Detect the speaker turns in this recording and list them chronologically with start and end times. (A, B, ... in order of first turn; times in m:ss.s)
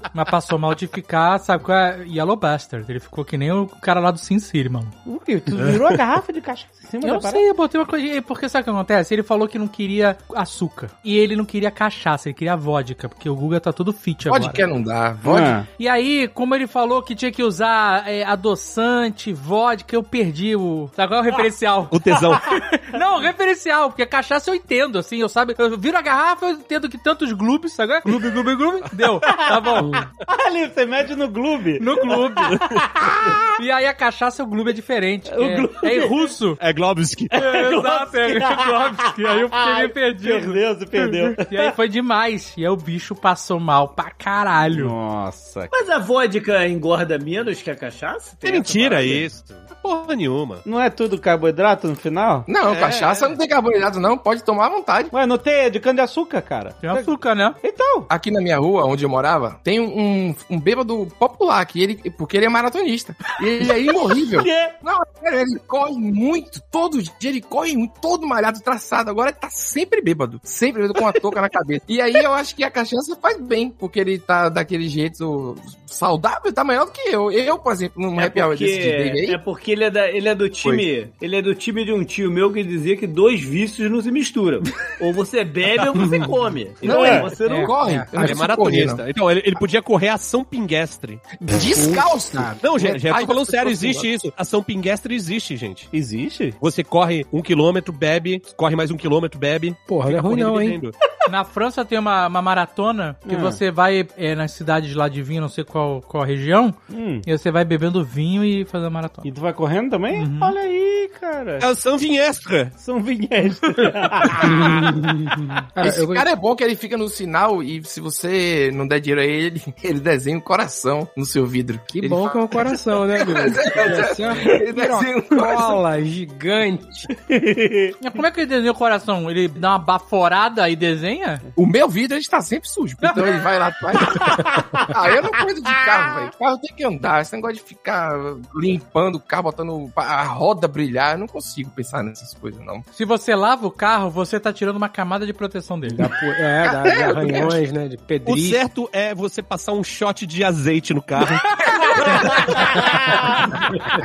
0:00.1-0:04.9 A
0:05.0-0:07.4 B
0:07.0-0:14.6 A
0:14.3-0:15.6 C
0:15.2-0:15.7 B
0:15.7-0:30.0 A
0:21.9-0:22.6 D
0:29.5-0:33.6 B
0:29.8-0:30.0 E
0:31.8-0:32.8 A
0:33.4-0:36.6 A
0:35.3-0:36.3 B
0:36.6-0:37.3 D
0:37.3-0:41.7 B
0:37.3-0:44.9 A
0:44.7-0:45.7 B
0:45.7-0:49.3 F
0:48.4-0:50.6 D
0:50.6-0:52.5 B
0:52.5-0:55.1 C
0:52.6-0:53.3 D
0:55.1-0:58.1 B
0:56.8-0:57.6 A
0:58.1-1:19.4 C
1:04.1-1:04.8 B
1:18.1-1:27.7 F
1:26.0-1:26.2 E
1:26.8-1:27.3 B
1:26.8-1:29.0 C
1:27.4-1:28.4 E
1:28.1-1:31.2 D
1:31.5-1:34.1 C
1:31.7-1:32.6 E
1:32.6-1:35.9 D
1:35.9-1:36.6 B
1:36.6-1:41.0 D
1:39.9-1:40.8 E
1:41.3-1:49.3 A
1:43.2-1:43.6 B
1:46.9-1:47.2 B
1:49.2-1:51.7 B
1:50.1-1:50.5 A
1:51.6-1:52.7 D
1:52.8-1:54.6 B
1:54.4-1:54.7 C
1:54.4-1:56.3 E
1:55.8-2:05.8 C
2:01.9-2:07.1 E
2:07.2-2:08.0 B
2:08.0-2:11.4 A
2:11.6-2:22.8 C
2:14.1-2:14.8 B
2:22.9-2:26.1 A
2:25.8-2:28.6 E
2:26.6-2:27.6 C
2:28.2-2:32.7 D
2:31.7-2:32.7 C
2:32.0-2:33.7 B